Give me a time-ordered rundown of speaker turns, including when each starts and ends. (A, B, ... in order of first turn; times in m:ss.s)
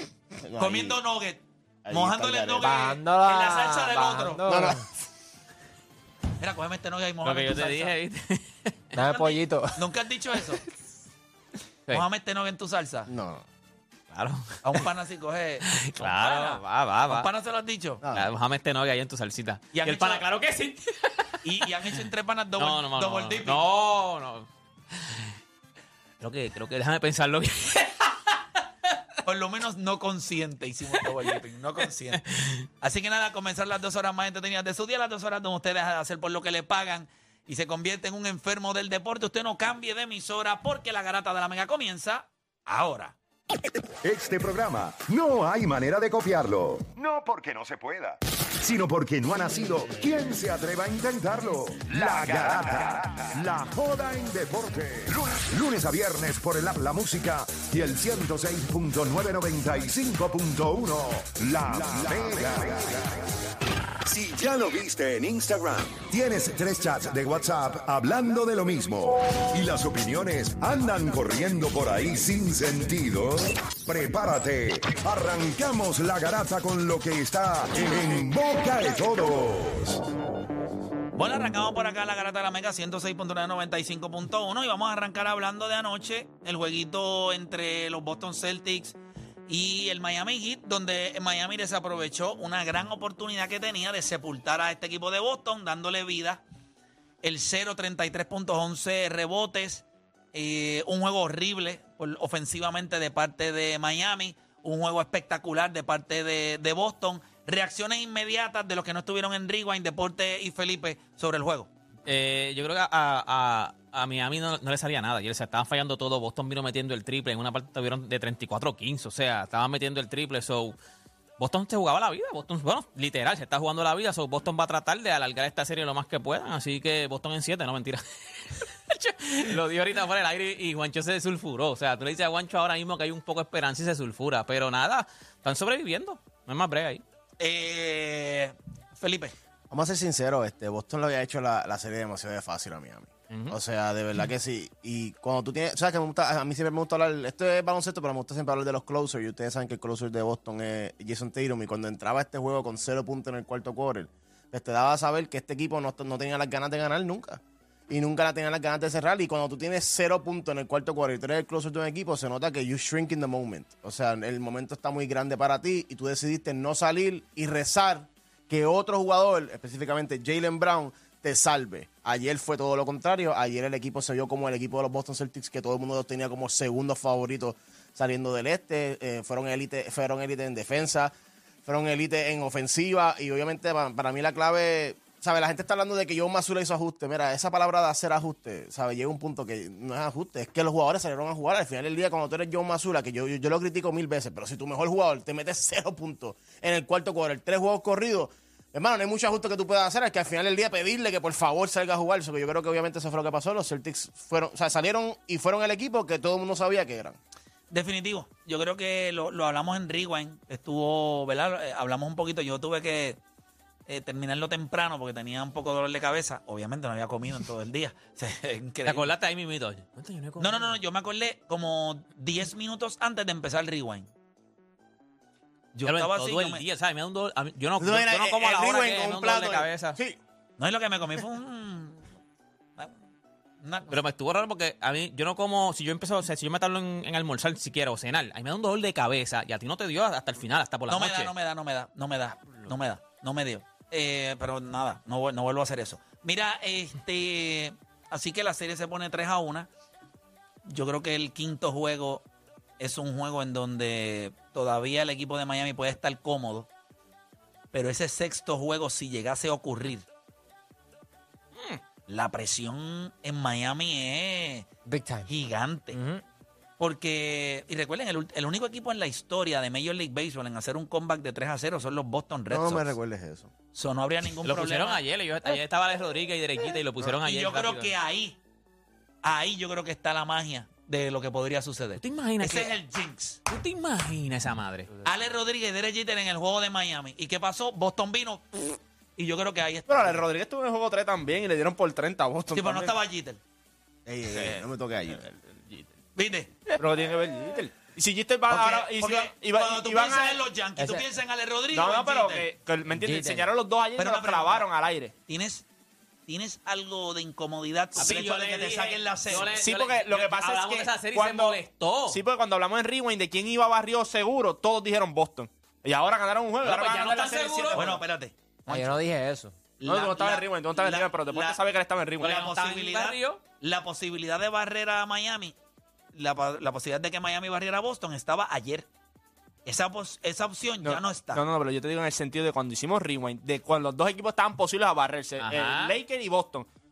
0:00.4-0:01.0 A
0:00.6-0:04.4 B
0:01.8-0:02.8 A
0:02.6-0:04.8 C
0:04.5-0:04.9 A
0:06.4-0:08.0 B
0:07.2-0:08.8 D
0:08.9-0:09.8 C
0:09.1-0:10.6 B
0:11.9-0:13.1 B
0:13.1-0:13.4 A
0:14.1-0:14.9 D
0:14.6-0:18.0 B
0:15.6-0:17.3 D
0:18.0-0:18.3 A
0:18.1-0:21.4 D
0:19.8-0:20.2 B
0:21.4-0:23.6 B
0:22.6-0:25.3 D
0:26.2-0:28.4 D
0:29.2-0:32.2 B
0:30.9-0:31.4 D
0:32.1-0:32.6 D
0:32.8-0:43.2 B
0:44.0-1:03.1 E
1:04.0-1:20.0 E
1:21.2-1:36.4 B
1:37.2-1:51.7 B
1:52.1-2:00.8 D
2:01.4-2:17.0 D
2:17.4-2:19.3 B
2:19.7-3:01.1 A
2:23.3-2:23.6 D
3:01.6-3:27.2 A
3:27.7-3:33.2 B
3:33.9-3:39.1 B
3:38.8-3:40.8 D
3:40.4-3:44.1 B
3:45.8-3:46.6 B
3:45.8-3:50.0 D
3:47.8-3:50.2 A
3:50.6-3:52.1 B
3:53.6-3:54.0 B
3:53.9-4:01.3 D
4:00.9-4:09.7 B
4:10.7-4:12.2 B
4:12.8-4:16.7 B
4:17.7-4:20.1 B
4:21.6-4:21.8 D
4:22.1-4:24.7 B
4:24.9-4:25.3 C
4:25.3-4:26.0 B
4:25.9-4:26.2 C
4:26.8-4:32.9 B
4:32.5-4:33.5 A
4:33.7-4:35.0 B
4:34.4-4:37.9 D
4:37.0-4:38.4 B
4:39.2-4:43.4 B
4:42.0-4:42.7 D
4:43.5-4:44.9 D
4:45.0-4:50.2 B
4:49.9-4:52.9 F
4:52.5-4:53.4 B
4:54.1-4:55.4 A
4:56.2-4:56.5 B
4:56.8-5:00.4 F
4:58.5-5:02.5 B
5:00.8-5:01.0 C
5:01.7-5:05.1 F
5:03.0-5:03.5 C
5:04.0-5:04.6 B
5:05.3-5:05.7 B
5:06.3-5:09.6 B
5:08.0-5:12.2 D
5:09.6-5:18.0 F
5:16.6-5:17.8 D
5:17.7-5:19.0 B
5:18.7-5:19.6 C
5:19.8-5:21.6 B
5:19.8-5:22.3 F
5:22.2-5:23.4 D
5:22.2-5:25.6 B
5:26.1-5:28.9 B
5:29.7-5:31.4 B
5:30.8-5:36.7 F
5:35.4-5:36.0 D